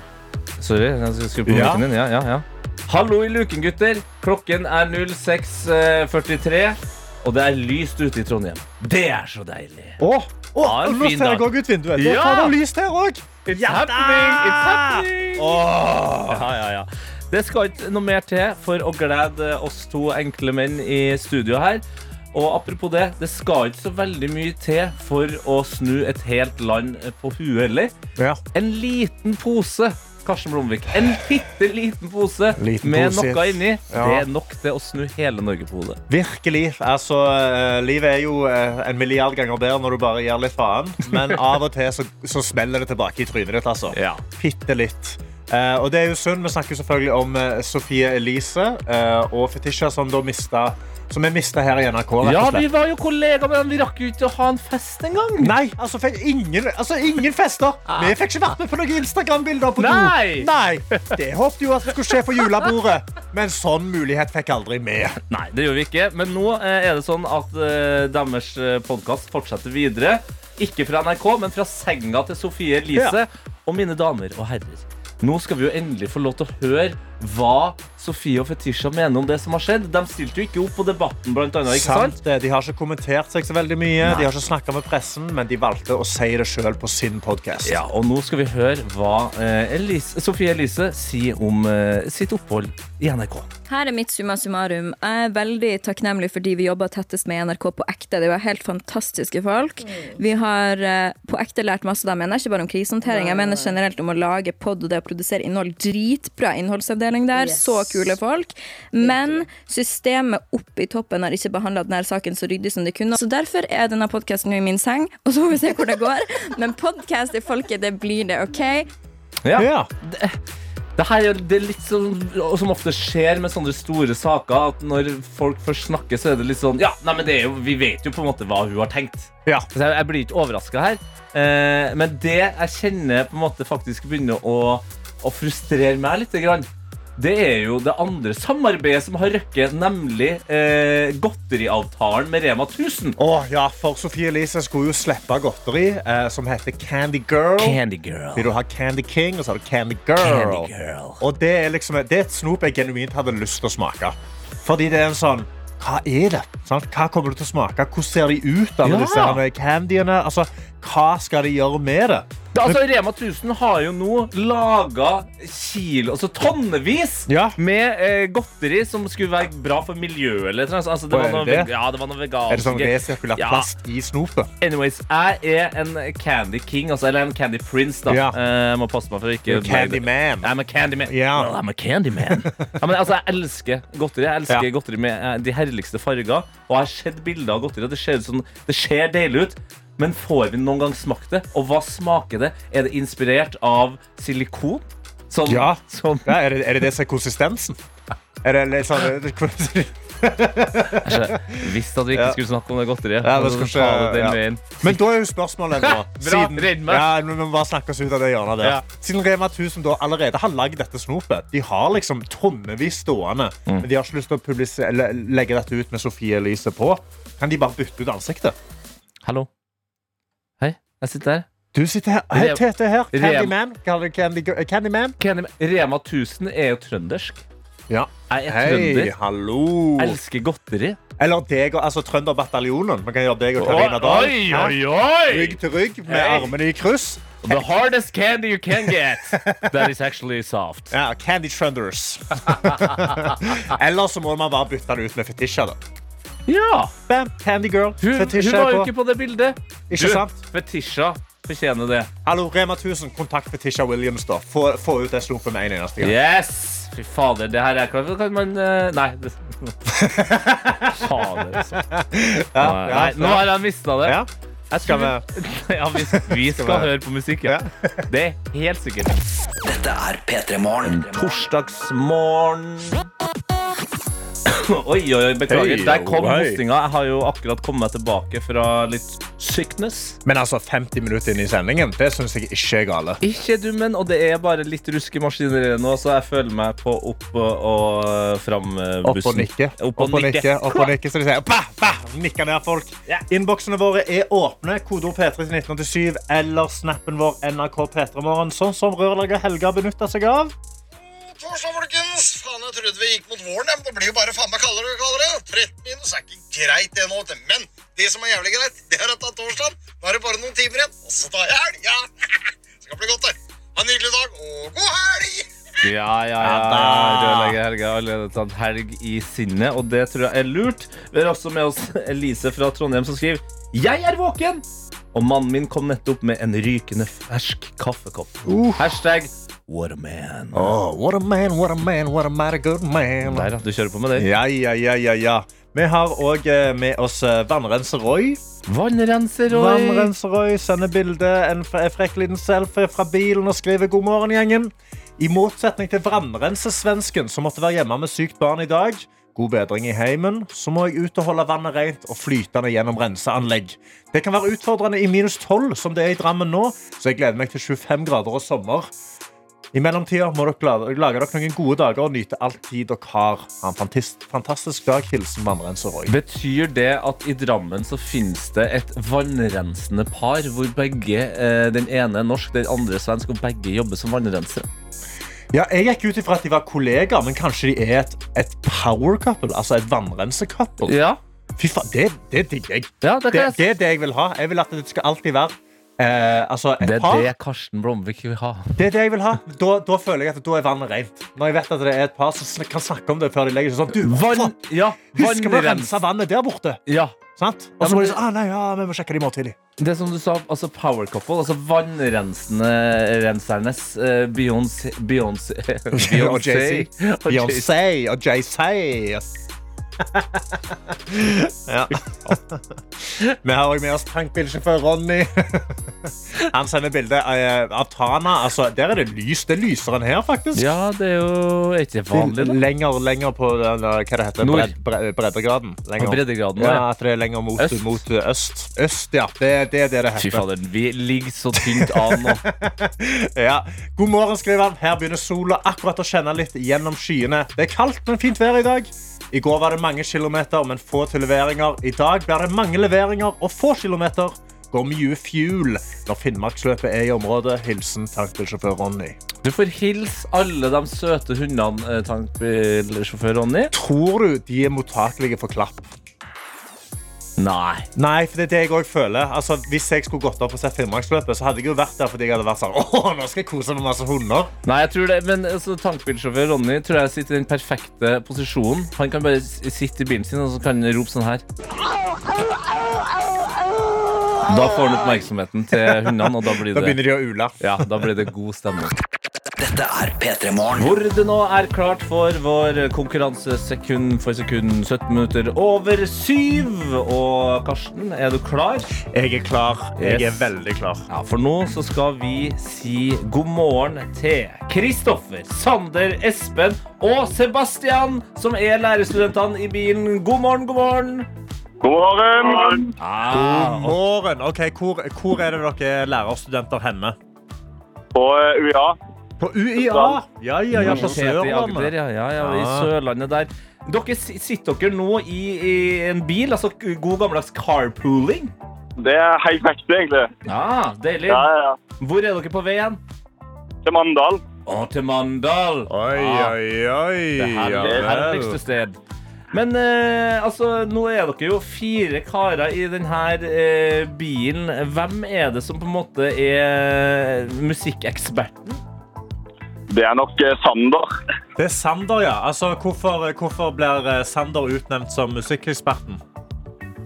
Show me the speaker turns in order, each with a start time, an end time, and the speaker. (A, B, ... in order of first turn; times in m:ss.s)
0:00.6-0:10.0 A
0:01.5-0:01.8 B
0:10.0-0:16.4 B
0:10.6-0:12.6 A
0:13.4-0:15.6 A
0:16.3-0:27.9 A
0:28.2-0:28.4 B
0:28.5-0:36.0 A
0:32.6-0:34.2 B
0:36.1-0:52.7 B
0:41.1-0:41.4 A
0:43.9-0:44.2 A
0:52.2-0:55.5 A
0:55.4-1:05.2 B
0:59.8-1:01.1 A
1:05.3-1:22.2 A
1:21.7-1:27.8 B
1:24.0-1:24.3 A
1:27.6-1:33.5 A
1:33.7-1:58.9 C
1:59.4-2:00.4 A
1:59.6-1:59.9 B
2:01.0-2:23.2 A
2:23.2-2:27.8 B
2:27.6-2:28.5 A
2:28.3-2:42.8 B
2:30.2-2:31.2 A
2:38.8-2:39.4 A
2:42.5-2:53.7 A
2:47.3-2:47.6 B
2:51.1-2:51.7 B
2:52.5-2:54.5 B
2:54.6-3:16.4 A
2:58.1-2:58.4 B
2:59.5-3:00.5 B
3:01.1-3:01.5 B
3:02.2-3:02.5 B
3:15.4-3:17.8 B
3:18.4-3:22.4 B
3:21.0-3:24.9 A
3:23.2-3:38.6 B
3:25.8-3:27.1 A
3:39.2-3:39.5 A
3:40.6-3:41.5 A
3:41.7-3:45.2 B
3:42.3-3:43.5 A
3:45.2-3:47.4 A
3:47.9-3:50.2 B
3:48.3-3:49.1 A
3:50.0-3:51.0 A
3:51.2-3:57.6 B
3:53.6-3:56.5 A
3:57.4-4:00.9 A
3:58.8-3:59.9 B
4:00.9-4:05.8 B
4:02.5-4:03.5 A
4:06.5-4:06.9 A
4:07.1-4:08.9 B
4:08.0-4:12.1 A
4:09.9-4:10.4 B
4:12.2-4:16.2 B
4:16.0-4:19.8 A
4:19.9-4:25.2 B
4:20.9-4:21.8 A
4:22.6-4:24.2 A
4:24.7-4:29.2 A
4:26.0-4:26.9 B
4:27.4-4:28.0 B
4:29.7-4:31.0 D
4:30.8-4:33.0 A
4:34.4-4:40.2 A
4:35.5-4:36.6 B
4:40.2-4:43.2 B
4:43.2-4:50.9 A
4:49.0-5:00.5 B
5:01.0-5:12.0 E
5:12.8-5:15.5 E
5:15.8-5:30.8 A
5:16.4-5:17.6 B
5:28.4-5:28.9 B
5:30.5-5:33.5 B
5:33.2-5:34.3 A
5:34.2-5:38.4 B
5:38.7-5:40.1 A
5:39.5-5:58.9 B
5:59.7-6:06.1 B
6:06.1-6:14.7 A
6:15.5-6:21.0 B
6:20.8-6:21.2 A
6:21.6-6:27.3 B
6:23.0-6:23.6 A
6:26.8-6:28.8 A
6:28.8-6:39.6 B
6:34.0-6:36.0 A
6:36.9-6:37.2 A
6:37.8-6:38.2 A
6:39.8-6:47.7 A
6:45.9-6:49.3 B
6:50.0-7:00.7 B
7:00.5-7:02.6 A
7:02.1-7:10.4 B
7:04.4-7:04.7 A
7:06.0-7:06.8 A
7:07.6-7:08.0 A
7:10.2-7:12.4 A
7:11.6-7:29.2 B
7:29.4-7:33.7 A
7:33.7-7:35.9 B
7:37.4-7:37.9 A
7:38.0-7:44.5 B
7:44.6-7:51.4 A
7:54.4-7:57.0 A
7:56.7-7:58.1 B
7:57.6-7:58.9 A
7:59.6-8:00.9 D
8:00.7-8:08.9 A
8:09.1-8:11.0 B
8:10.0-8:10.5 A
8:11.1-8:21.3 A
8:21.8-8:22.9 F
8:23.0-8:24.0 A
8:23.3-8:27.2 B
8:28.1-8:29.0 F
8:29.4-8:32.9 B
8:29.9-8:30.2 F
8:30.7-8:38.5 A
8:39.0-8:40.3 F
8:40.4-8:41.5 A
8:41.3-8:41.8 F
8:42.0-8:43.0 A
8:43.8-8:44.4 F
8:44.6-8:46.6 A
8:45.9-8:48.6 B
8:47.4-8:49.0 A
8:47.8-8:48.1 F
8:49.5-8:58.8 A
8:59.9-9:01.1 F
9:01.6-9:06.2 B